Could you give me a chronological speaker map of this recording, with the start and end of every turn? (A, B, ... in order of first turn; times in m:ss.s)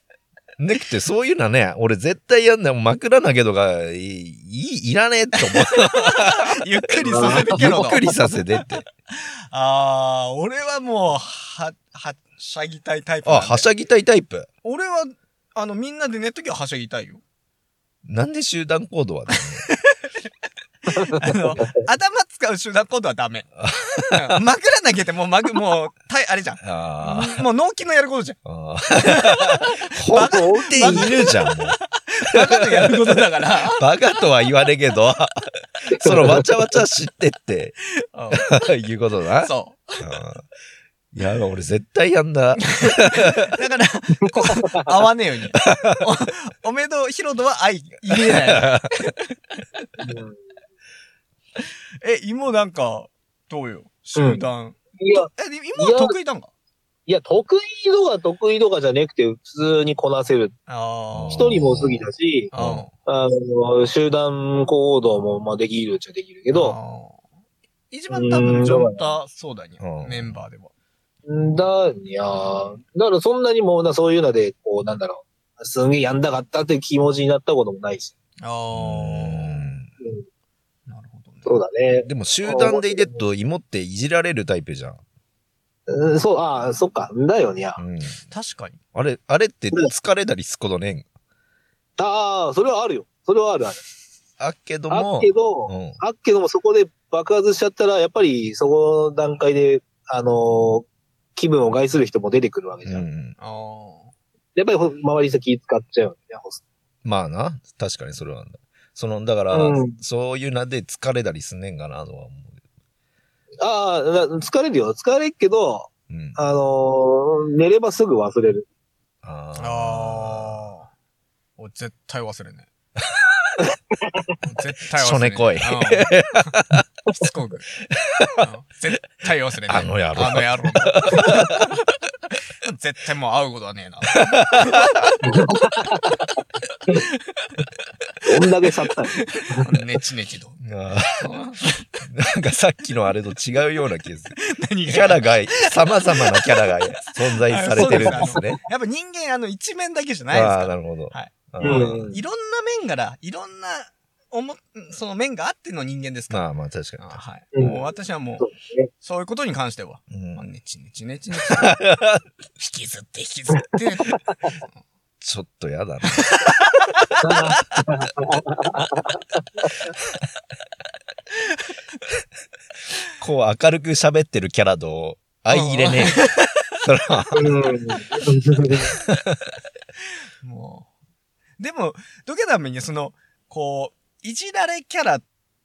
0:00.6-0:06.5 A
0:05.4-0:08.0 B
0:07.0-0:07.6 C
0:07.1-0:08.9 A
0:09.1-0:13.7 B
0:13.2-0:14.5 A
0:14.6-0:17.2 B
0:18.0-0:19.6 A
0:19.4-0:20.1 B
0:20.9-0:28.4 B
0:20.9-0:21.7 C
0:23.6-0:24.4 A
0:26.6-0:27.4 A
0:28.4-0:31.8 A
0:28.9-0:33.9 B
0:30.1-0:31.2 C
0:32.3-0:33.2 A
0:33.8-0:37.8 A
0:35.9-0:36.5 C
0:38.1-0:38.5 B
0:38.3-0:39.5 A
0:39.4-0:40.0 B
0:40.0-0:40.5 A
0:41.1-0:43.5 A
0:42.7-0:49.2 B
0:45.7-0:46.0 A
0:48.1-0:48.9 A
0:50.0-0:50.4 C
0:52.0-0:56.5 B
0:54.2-0:54.4 C
0:55.0-0:56.2 C
0:57.1-1:00.6 C
1:00.7-1:01.5 B
1:01.1-1:02.9 A
1:01.3-1:02.5 C
1:02.5-1:02.9 B
1:03.1-1:06.8 C
1:06.5-1:07.2 B
1:07.9-1:10.7 B
1:08.1-1:09.0 C
1:09.8-1:10.4 A
1:11.3-1:18.1 C
1:18.4-1:19.7 B
1:18.7-1:19.9 A
1:20.9-1:21.6 B
1:21.4-1:23.2 C
1:22.1-1:25.0 A
1:25.9-1:27.8 C
1:27.8-1:28.2 A
1:28.3-1:28.8 B
1:28.9-1:31.1 A
1:32.0-1:33.8 C
1:34.4-1:36.0 A
1:34.9-1:43.0 C
1:42.8-1:43.4 A
1:43.4-1:44.1 B
1:44.6-1:46.6 C
1:47.0-1:52.6 A
1:49.5-1:50.0 C
1:53.6-1:58.7 C
1:56.1-1:56.4 A
1:59.2-2:00.7 A
1:59.6-2:00.9 B
2:01.6-2:02.7 B
2:03.0-2:03.5 A
2:04.1-2:04.4 C
2:04.4-2:06.5 B
2:05.0-2:06.8 A
2:07.1-2:07.7 B
2:07.9-2:08.5 A
2:08.4-2:11.7 B
2:09.7-2:11.8 A
2:12.6-2:15.4 B
2:14.2-2:15.1 A
2:15.2-2:16.2 C
2:16.9-2:17.6 B
2:18.3-2:19.7 C
2:19.2-2:20.6 B
2:20.6-2:21.3 A
2:21.2-2:21.9 B
2:22.0-2:24.4 A
2:24.4-2:36.5 B
2:24.9-2:28.6 A
2:27.8-2:28.5 C
2:30.3-2:32.2 A
2:31.6-2:32.2 C
2:36.3-2:37.2 A
2:37.0-2:38.5 B
2:37.6-2:37.8 C
2:38.4-2:38.9 C
2:39.0-2:41.8 B
2:40.1-2:40.5 A
2:41.5-2:42.2 A
2:42.6-2:44.8 B
2:45.2-2:46.3 A
2:46.1-2:47.8 B
2:47.2-2:49.2 C
2:53.2-2:57.5 A
2:55.5-2:56.6 B
2:57.3-2:58.9 C
2:59.0-2:59.6 A
3:00.4-3:00.9 B
3:01.6-3:05.2 B